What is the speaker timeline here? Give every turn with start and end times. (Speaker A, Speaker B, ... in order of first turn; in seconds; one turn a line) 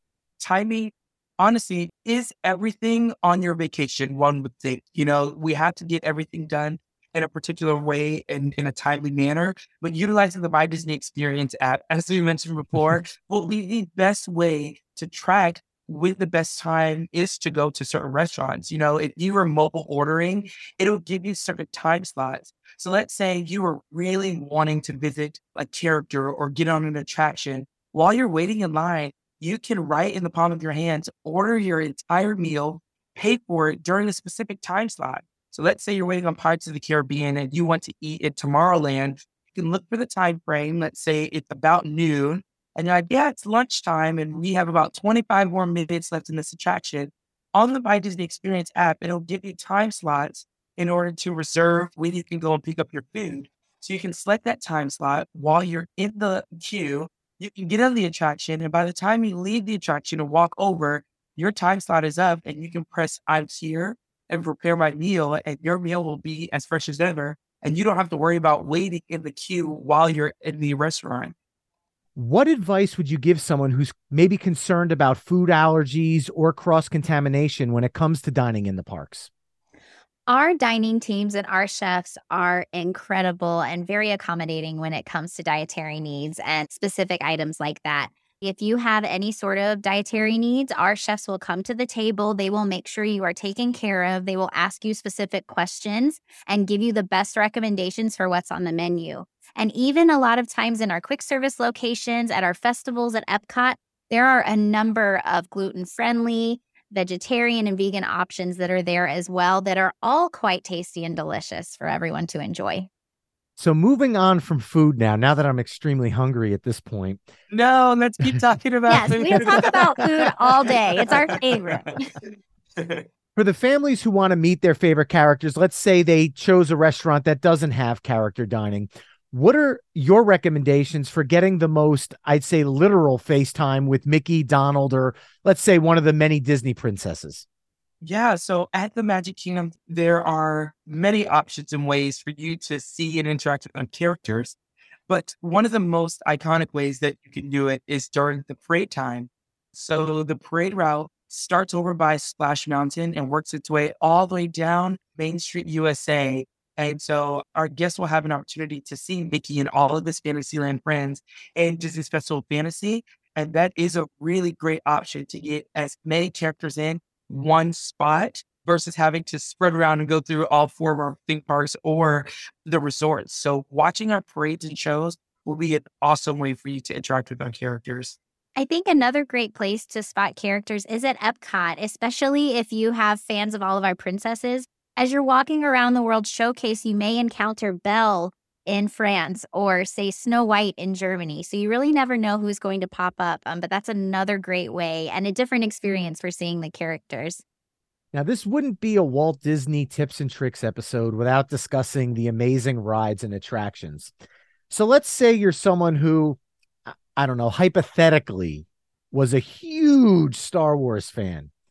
Speaker A: 0.4-71.3
Speaker B: 72.2-79.3
Speaker C: 80.3-112.9
Speaker B: 113.6-117.2
Speaker A: 117.5-121.8
Speaker C: 118.9-122.1
Speaker A: 122.8-123.0
Speaker B: 123.4-137.4
Speaker A: 138.0-144.6
Speaker A: 145.1-178.2
Speaker C: 178.6-197.4
Speaker B: 198.1-204.1
Speaker B: 204.7-211.5